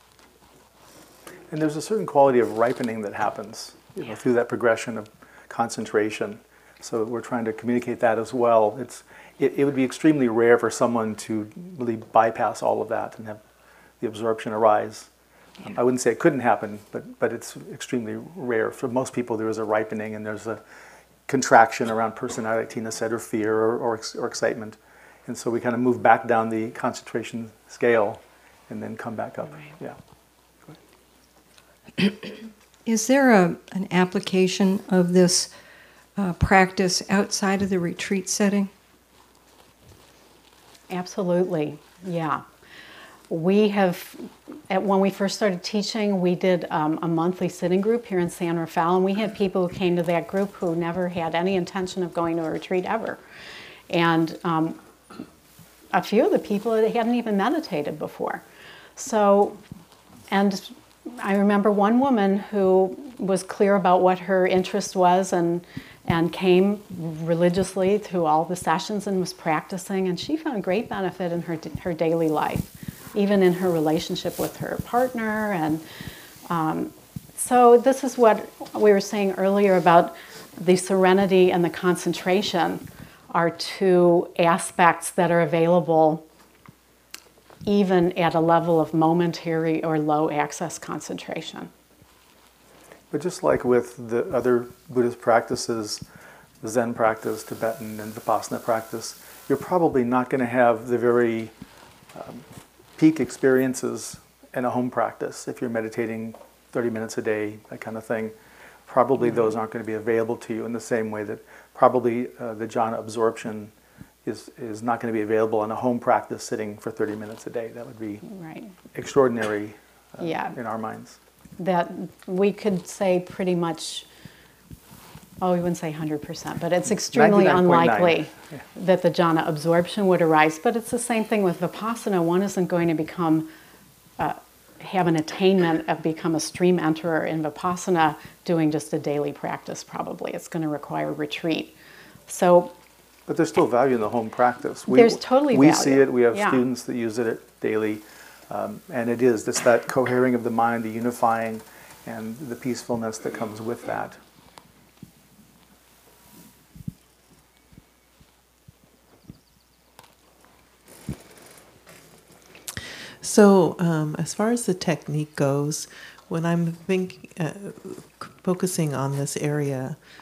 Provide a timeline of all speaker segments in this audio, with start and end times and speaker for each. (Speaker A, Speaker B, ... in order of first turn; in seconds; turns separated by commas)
Speaker A: 1.5-13.4, Speaker A: 14.0-15.1, Speaker A: 15.6-20.6, Speaker A: 21.3-30.0, Speaker B: 32.9-35.5, Speaker B: 36.2-38.7, Speaker C: 40.9-42.4, Speaker C: 43.3-53.2, Speaker C: 53.9-54.8, Speaker C: 55.9-58.4, Speaker C: 59.0-59.6, Speaker C: 60.3-75.8, Speaker C: 76.5-86.3, Speaker C: 87.7-91.7, Speaker A: 93.1-96.0, Speaker A: 96.6-101.5, Speaker A: 102.1-102.4, Speaker A: 103.0-108.3, Speaker A: 108.9-113.7, Speaker A: 114.2-118.2, Speaker C: 118.2-118.7, Speaker A: 118.9-121.2, Speaker C: 120.2-120.6, Speaker C: 121.6-124.1, Speaker C: 125.4-133.5, Speaker A: 127.0-128.6, Speaker C: 134.2-141.8, Speaker C: 142.3-142.7, Speaker A: 143.3-154.2, Speaker C: 144.9-146.6, Speaker D: 163.2-170.0